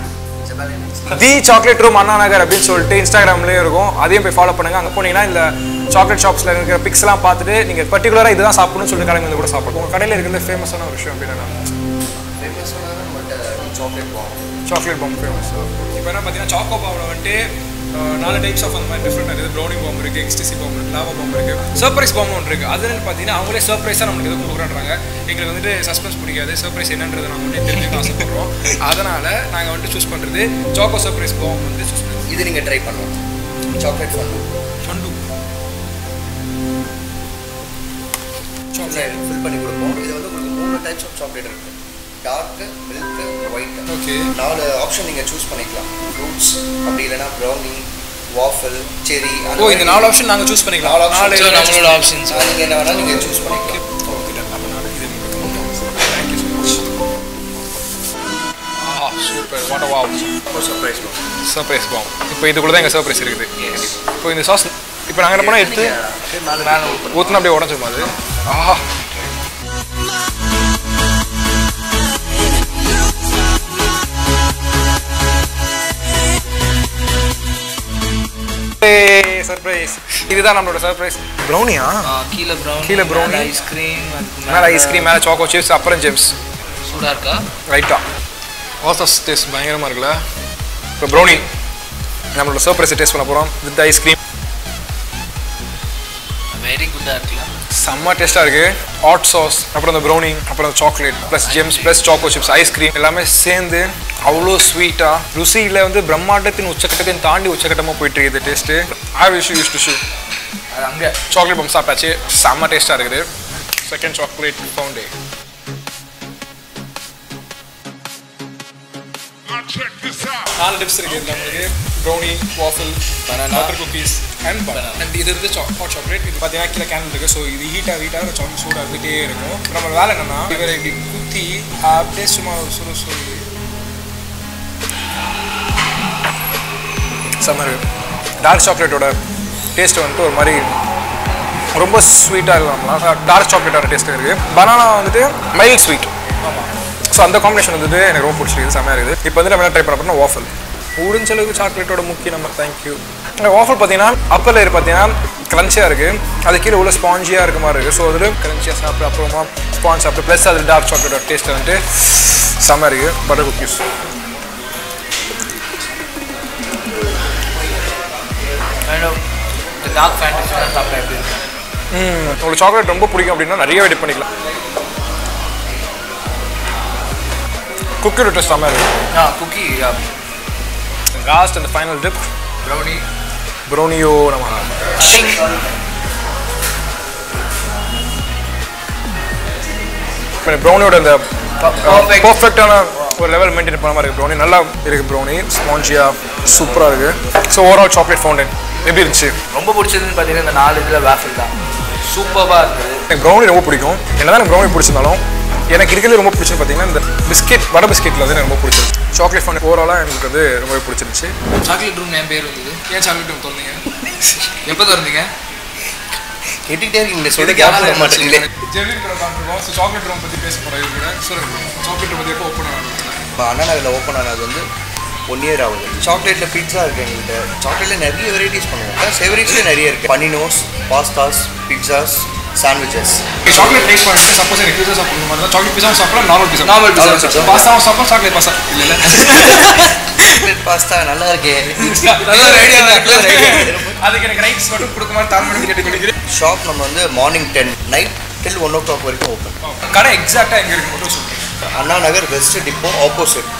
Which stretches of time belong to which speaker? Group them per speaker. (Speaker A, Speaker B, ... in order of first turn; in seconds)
Speaker A: 0.4-1.3, 12.4-14.6, 32.3-33.2, 33.7-34.5, 38.8-50.2, 50.8-53.8, 60.5-61.2, 65.3-67.3, 216.6-218.5, 223.3-224.7, 225.3-233.4, 236.9-237.7, 240.2-241.9, 242.5-244.0, 246.3-249.6, 251.7-253.5
Speaker B: 1.1-11.7, 14.6-17.4, 17.9-32.3, 34.8-35.2, 38.7-39.2, 43.9-44.3, 49.6-52.4, 53.6-56.9, 58.8-60.4, 61.4-66.0, 67.0-69.0, 78.8-82.1, 82.8-83.5, 84.5-86.3, 87.7-88.0, 88.8-90.2, 91.0-91.5, 92.3-94.2, 97.8-110.0, 111.3-113.3, 113.8-115.1, 120.3-133.4, 137.4-137.8, 138.4-139.1, 139.7-140.7, 141.8-146.1, 147.1-163.8, 171.9-174.3, 178.0-178.9, 181.1-182.2, 183.7-184.7, 190.4-191.2, 191.8-199.3, 203.1-205.2, 205.7-211.3, 212.9-213.8, 217.4-223.2, 233.4-240.3, 241.8-246.1, 249.6-251.5
Speaker C: 51.2-52.5, 66.5-67.5, 82.0-85.2, 86.8-87.4, 96.5-97.5, 101.3-102.4, 110.7-111.2, 123.2-123.8, 124.7-125.0, 168.8-169.2, 169.8-171.3, 179.1-180.0, 182.6-183.0, 185.0-185.4, 191.6-192.4, 199.5-203.0, 211.6-213.0, 214.2-215.3, 236.6-237.7, 239.1-240.1, 241.8-243.8